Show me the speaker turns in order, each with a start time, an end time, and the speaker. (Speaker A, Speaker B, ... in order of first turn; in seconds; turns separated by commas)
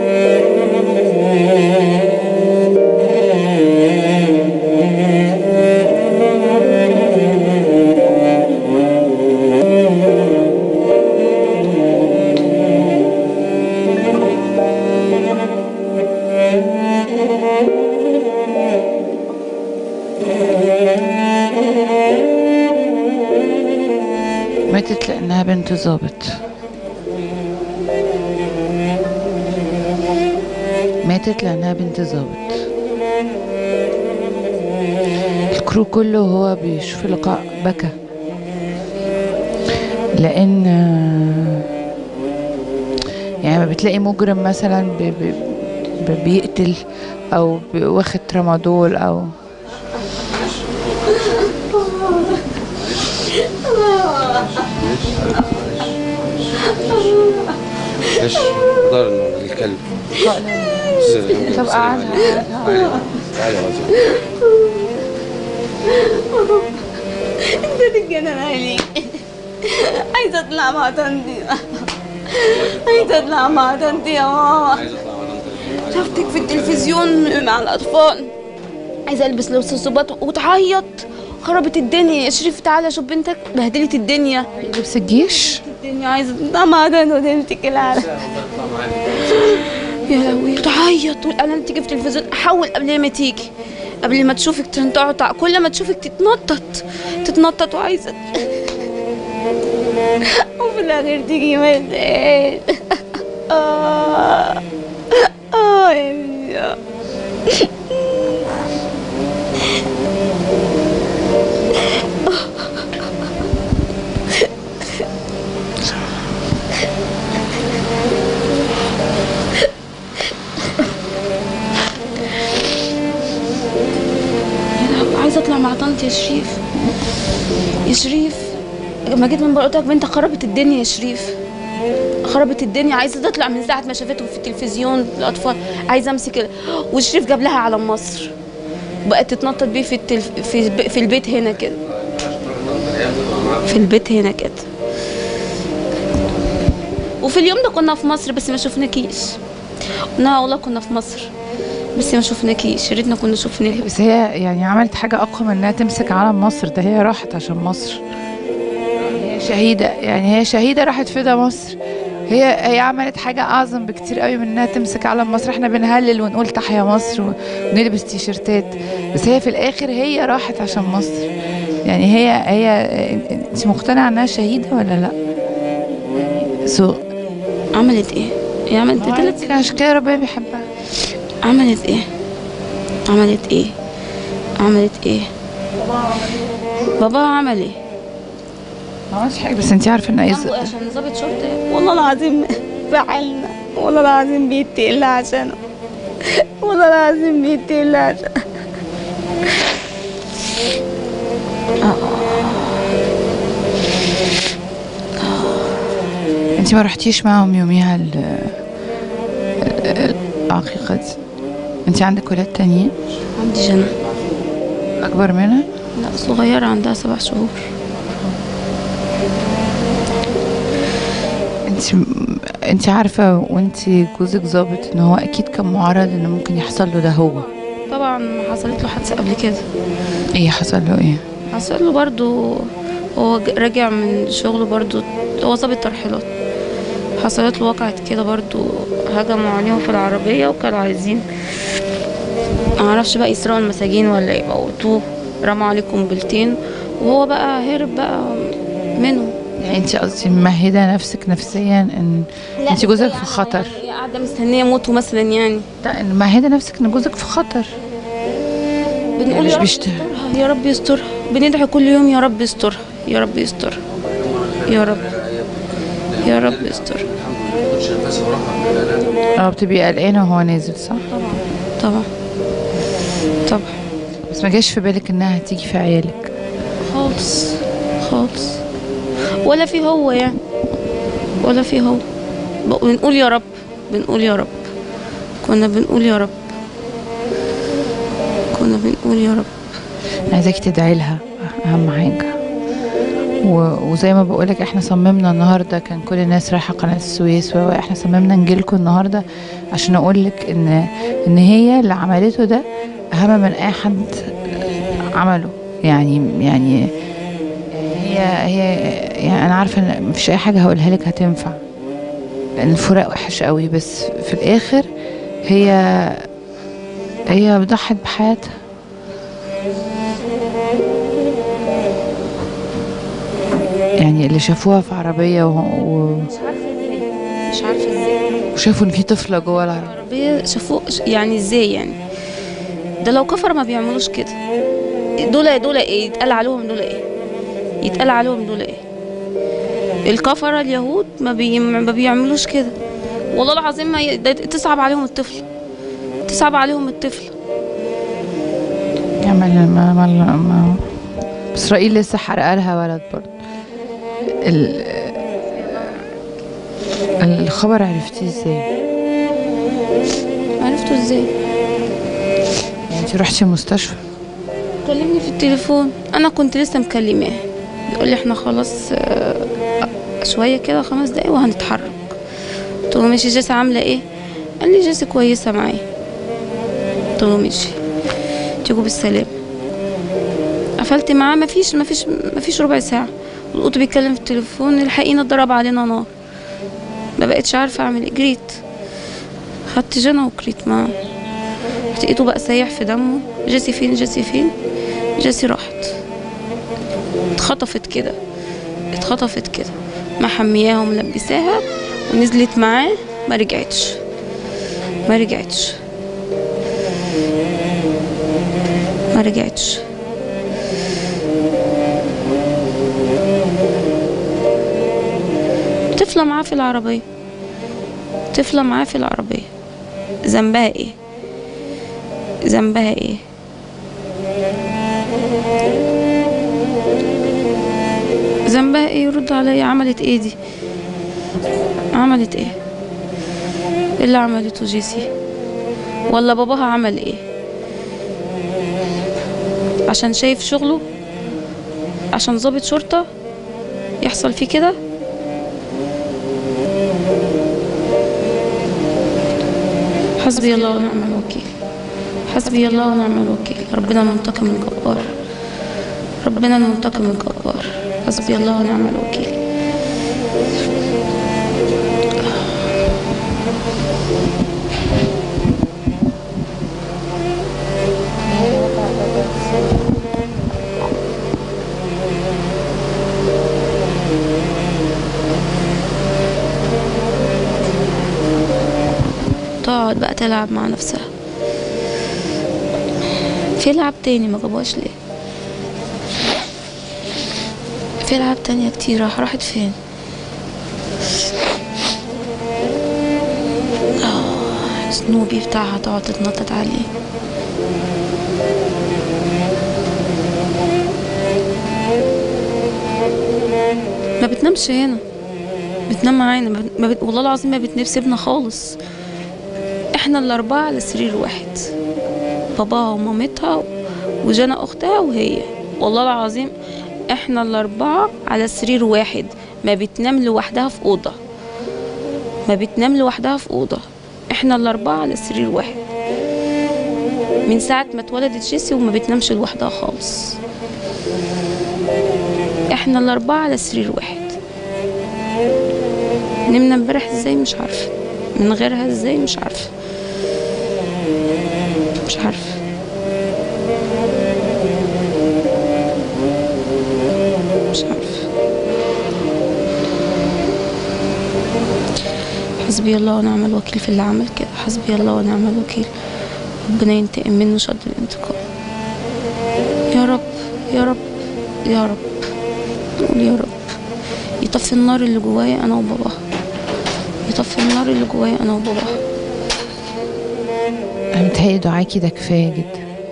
Speaker A: 24.7-26.4, Speaker A: 31.0-32.6, Speaker A: 35.5-37.9, Speaker A: 40.2-41.7, Speaker A: 43.4-46.8, Speaker A: 47.3-49.4, Speaker B: 50.2-51.9, Speaker B: 52.6-53.5, Speaker B: 54.2-57.3, Speaker B: 58.0-60.2, Speaker A: 60.2-62.9, Speaker B: 61.0-64.0, Speaker C: 64.0-64.9, Speaker C: 65.9-66.8, Speaker C: 67.4-74.8, Speaker B: 72.4-77.0, Speaker C: 75.9-78.3, Speaker C: 79.1-84.7, Speaker A: 84.6-85.6, Speaker C: 85.5-88.1, Speaker B: 87.8-89.7, Speaker C: 89.5-93.5, Speaker C: 94.0-98.5, Speaker C: 100.2-104.6, Speaker C: 105.1-106.8, Speaker C: 112.3-112.8, Speaker C: 124.8-126.6, Speaker C: 127.8-128.6, Speaker C: 129.1-131.4, Speaker C: 132.2-138.3, Speaker C: 139.1-141.8, Speaker B: 141.1-143.8, Speaker C: 143.7-144.7, Speaker C: 147.2-149.4, Speaker C: 150.2-151.3, Speaker C: 151.9-153.9, Speaker A: 153.7-158.0, Speaker A: 159.1-161.8, Speaker A: 162.3-171.3, Speaker A: 171.8-175.2, Speaker A: 176.1-177.0, Speaker C: 177.7-179.8, Speaker A: 179.0-180.7, Speaker C: 181.4-182.1, Speaker C: 183.1-183.8, Speaker C: 184.6-185.3, Speaker C: 187.0-187.8, Speaker A: 189.1-190.7, Speaker C: 190.3-195.6, Speaker C: 196.2-198.4, Speaker C: 201.8-202.7, Speaker C: 205.2-205.8, Speaker A: 206.6-208.6, Speaker A: 209.6-211.2, Speaker A: 211.9-212.9, Speaker B: 213.1-214.5, Speaker C: 213.4-213.9, Speaker A: 215.0-215.7, Speaker C: 215.9-217.7, Speaker A: 221.7-227.5, Speaker C: 227.9-229.7, Speaker A: 230.3-231.2, Speaker C: 231.5-236.3, Speaker C: 237.2-241.2, Speaker C: 242.8-249.4, Speaker A: 249.6-253.8, Speaker C: 252.6-255.7, Speaker A: 255.8-257.7, Speaker C: 259.2-263.8, Speaker A: 259.3-260.1, Speaker B: 263.9-269.3, Speaker C: 264.7-265.1, Speaker C: 266.2-267.0, Speaker A: 269.4-271.0, Speaker C: 271.1-272.1, Speaker C: 273.5-273.8, Speaker A: 274.3-276.3, Speaker C: 276.8-278.6, Speaker C: 279.4-280.4, Speaker C: 281.4-282.0, Speaker C: 282.6-284.6, Speaker C: 285.4-286.4, Speaker C: 288.5-289.5, Speaker A: 290.3-292.3, Speaker A: 293.4-306.9, Speaker A: 307.7-311.6, Speaker A: 312.6-314.9, Speaker A: 315.4-316.3, Speaker A: 317.3-318.5, Speaker A: 324.0-326.3, Speaker C: 326.3-328.2, Speaker A: 328.6-329.9, Speaker C: 329.7-332.0, Speaker C: 333.0-334.4, Speaker C: 335.2-337.0, Speaker C: 337.8-338.8, Speaker C: 340.1-342.8, Speaker C: 343.3-345.4, Speaker C: 346.3-347.3, Speaker A: 349.2-350.9, Speaker A: 351.5-353.4, Speaker A: 354.4-355.9, Speaker A: 357.2-358.7, Speaker C: 360.6-361.3, Speaker A: 362.9-364.0, Speaker C: 364.8-369.5, Speaker C: 370.2-372.1, Speaker C: 372.9-374.0, Speaker C: 374.6-375.8, Speaker C: 377.2-377.8, Speaker C: 378.6-379.4, Speaker C: 380.8-386.1, Speaker C: 387.2-388.6, Speaker C: 389.7-390.9, Speaker C: 391.9-394.5, Speaker C: 395.2-395.9, Speaker C: 397.4-398.2, Speaker C: 398.9-404.0, Speaker C: 405.1-405.8, Speaker C: 409.1-409.9, Speaker C: 415.9-417.0, Speaker C: 418.3-419.5, Speaker C: 420.2-421.0, Speaker C: 422.4-423.2, Speaker C: 428.5-430.4, Speaker C: 431.9-432.6, Speaker C: 434.0-435.1, Speaker C: 436.1-437.2, Speaker C: 439.9-440.8, Speaker C: 442.1-443.1, Speaker C: 444.0-444.8, Speaker C: 450.2-451.5, Speaker C: 452.3-455.1, Speaker C: 456.2-459.4, Speaker A: 468.3-469.5, Speaker C: 479.6-481.1, Speaker C: 483.6-484.9, Speaker C: 488.0-489.8, Speaker C: 494.0-496.9, Speaker C: 504.2-505.0, Speaker C: 505.9-508.8, Speaker C: 509.9-511.7, Speaker C: 512.5-513.7, Speaker C: 514.2-516.5, Speaker C: 517.1-521.2, Speaker C: 522.5-525.8, Speaker C: 527.5-530.4, Speaker C: 532.7-534.4, Speaker C: 536.5-539.7, Speaker C: 542.1-542.6, Speaker C: 547.7-548.2, Speaker C: 552.6-555.9, Speaker C: 556.7-558.4, Speaker C: 559.9-561.0, Speaker C: 561.6-562.0, Speaker C: 563.0-563.6, Speaker C: 564.4-566.2, Speaker C: 567.3-569.0, Speaker A: 571.1-572.8